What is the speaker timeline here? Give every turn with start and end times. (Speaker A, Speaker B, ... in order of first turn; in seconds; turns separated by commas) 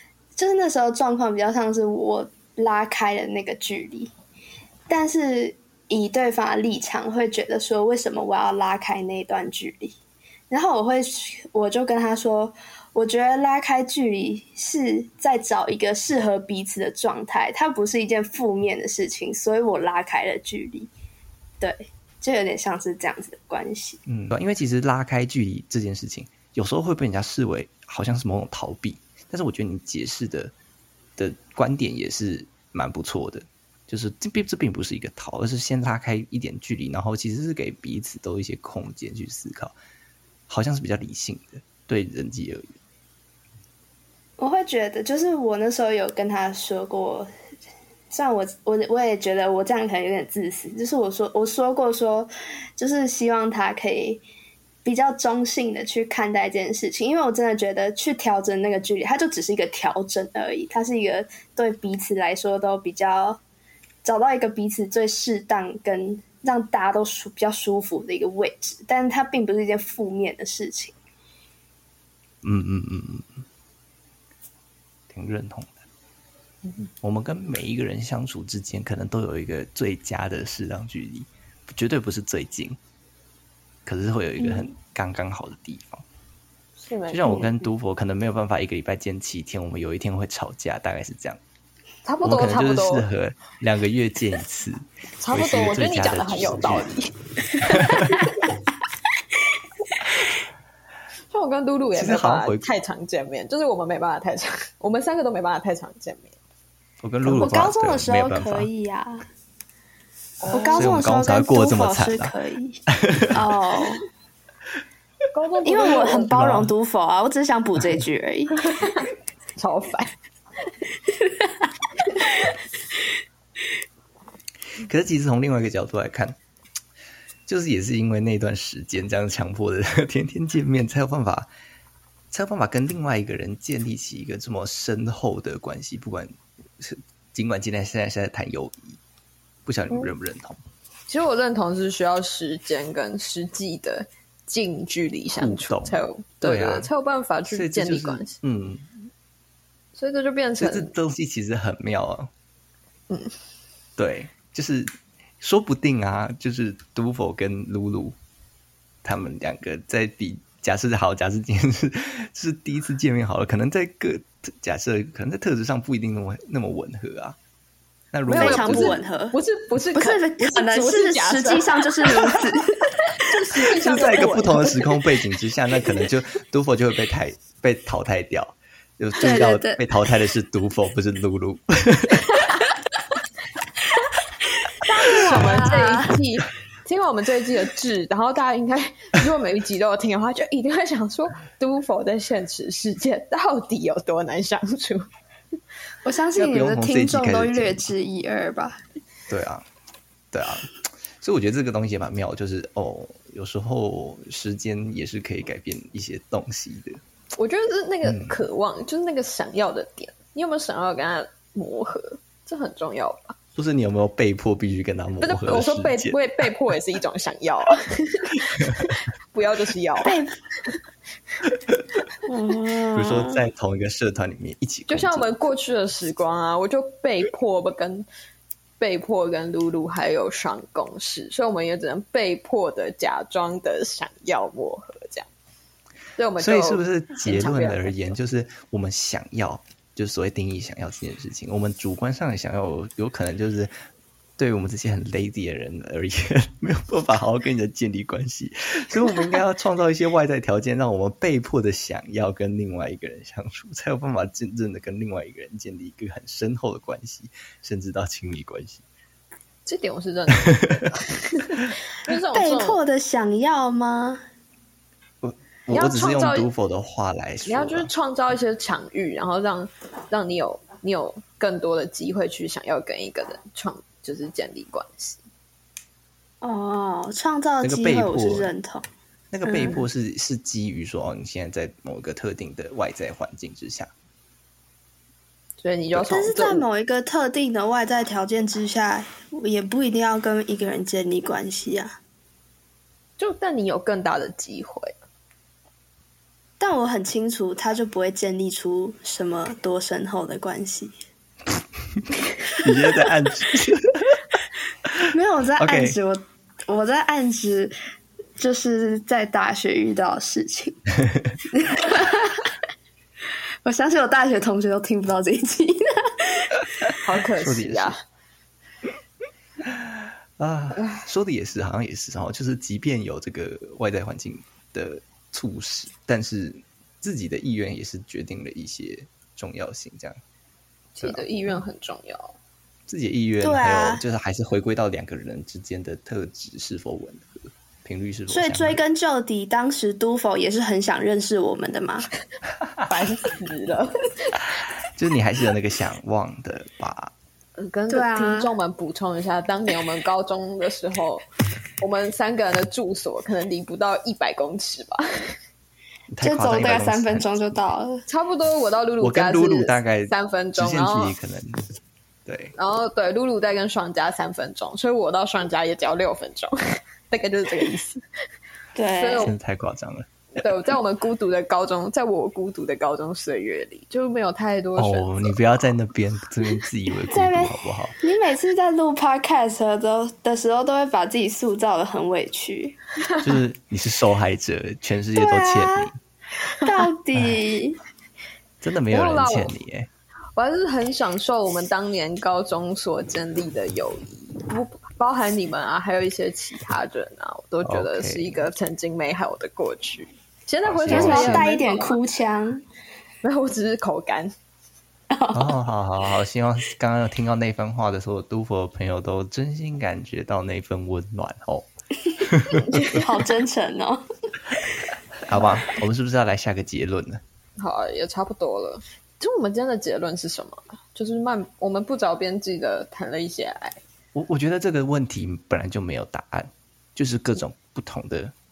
Speaker A: 0.3-4.1, Speaker A: 4.9-9.9, Speaker A: 10.5-20.9, Speaker A: 21.6-24.0, Speaker B: 24.1-30.5, Speaker B: 31.2-39.7, Speaker B: 40.5-42.6, Speaker A: 44.4-47.3, Speaker A: 48.1-54.2, Speaker A: 54.8-63.4, Speaker A: 64.0-71.0, Speaker B: 72.4-73.4, Speaker B: 75.1-75.8, Speaker B: 77.0-82.8, Speaker B: 83.8-86.0, Speaker C: 86.8-87.7, Speaker B: 87.1-91.4, Speaker C: 92.0-93.0, Speaker B: 92.2-97.0, Speaker C: 95.2-98.2, Speaker B: 97.7-98.2, Speaker C: 101.3-106.4, Speaker B: 101.9-102.7, Speaker B: 107.0-108.7, Speaker A: 107.2-109.2, Speaker C: 110.4-111.0, Speaker A: 110.5-114.1, Speaker B: 110.7-112.3, Speaker B: 112.9-113.4, Speaker C: 115.3-116.3, Speaker A: 115.6-118.9, Speaker B: 116.3-116.7, Speaker C: 118.6-120.1, Speaker B: 124.8-126.4, Speaker B: 127.5-131.5, Speaker B: 132.3-139.0, Speaker B: 139.6-140.6, Speaker C: 141.1-148.4, Speaker B: 145.3-146.9, Speaker B: 147.4-148.9, Speaker C: 149.9-150.9, Speaker B: 150.6-152.3, Speaker C: 153.1-153.3, Speaker B: 154.0-158.2, Speaker B: 159.0-167.4, Speaker B: 168.1-169.0, Speaker C: 168.3-174.9, Speaker A: 168.3-169.4, Speaker A: 169.9-172.8, Speaker B: 173.7-182.3, Speaker A: 179.2-179.8, Speaker C: 184.8-195.0, Speaker A: 185.1-186.2, Speaker B: 185.3-185.6, Speaker A: 196.0-198.8, Speaker B: 196.3-197.9, Speaker B: 199.3-199.7, Speaker B: 200.3-207.0, Speaker C: 207.3-213.3, Speaker B: 208.0-208.4, Speaker B: 213.6-216.4, Speaker C: 215.2-220.8, Speaker B: 218.6-218.9, Speaker A: 220.0-220.4, Speaker A: 222.2-223.4, Speaker B: 222.9-225.3, Speaker C: 224.9-228.1, Speaker C: 228.8-235.3, Speaker C: 236.2-238.2, Speaker B: 236.4-243.7, Speaker B: 244.4-258.8, Speaker C: 259.6-262.8, Speaker A: 262.3-264.2, Speaker B: 265.2-267.9, Speaker C: 265.7-266.5, Speaker C: 267.4-275.2, Speaker A: 276.4-278.8, Speaker B: 277.6-278.5, Speaker B: 279.3-283.9, Speaker C: 279.5-279.8, Speaker C: 285.6-286.6, Speaker A: 286.0-292.0, Speaker C: 293.2-295.0, Speaker A: 296.6-300.9, Speaker B: 301.9-304.2, Speaker A: 302.7-303.0, Speaker A: 305.1-307.7, Speaker B: 305.6-305.9, Speaker A: 308.4-310.8, Speaker A: 311.5-312.5, Speaker A: 313.6-316.6, Speaker C: 317.0-318.0, Speaker B: 317.4-317.9, Speaker B: 319.6-330.2, Speaker C: 320.7-321.1, Speaker C: 330.9-332.4, Speaker B: 331.0-331.6, Speaker B: 332.9-338.8, Speaker A: 333.4-334.0, Speaker A: 338.3-342.1, Speaker C: 342.9-344.4, Speaker B: 344.9-347.1, Speaker C: 347.6-351.2, Speaker A: 347.9-348.5, Speaker C: 351.8-355.3, Speaker B: 356.1-357.2, Speaker A: 356.2-358.0, Speaker C: 358.1-361.1, Speaker B: 359.0-361.6, Speaker B: 362.2-362.5, Speaker C: 362.6-368.0, Speaker A: 368.8-369.3, Speaker C: 368.9-369.3, Speaker B: 369.2-370.5, Speaker C: 370.4-375.4, Speaker B: 374.8-377.9, Speaker A: 377.1-382.8, Speaker B: 383.2-386.0, Speaker A: 385.1-385.9, Speaker A: 386.6-387.8, Speaker B: 387.1-387.4, Speaker B: 388.6-389.9, Speaker C: 388.9-389.5, Speaker C: 390.3-402.0, Speaker B: 397.6-398.5, Speaker B: 400.6-401.5, Speaker A: 400.9-402.6, Speaker C: 403.2-404.3, Speaker A: 405.1-405.6, Speaker B: 405.3-413.0, Speaker C: 412.6-413.0, Speaker A: 412.9-414.0, Speaker B: 415.2-417.2, Speaker C: 417.6-423.8, Speaker B: 424.1-428.3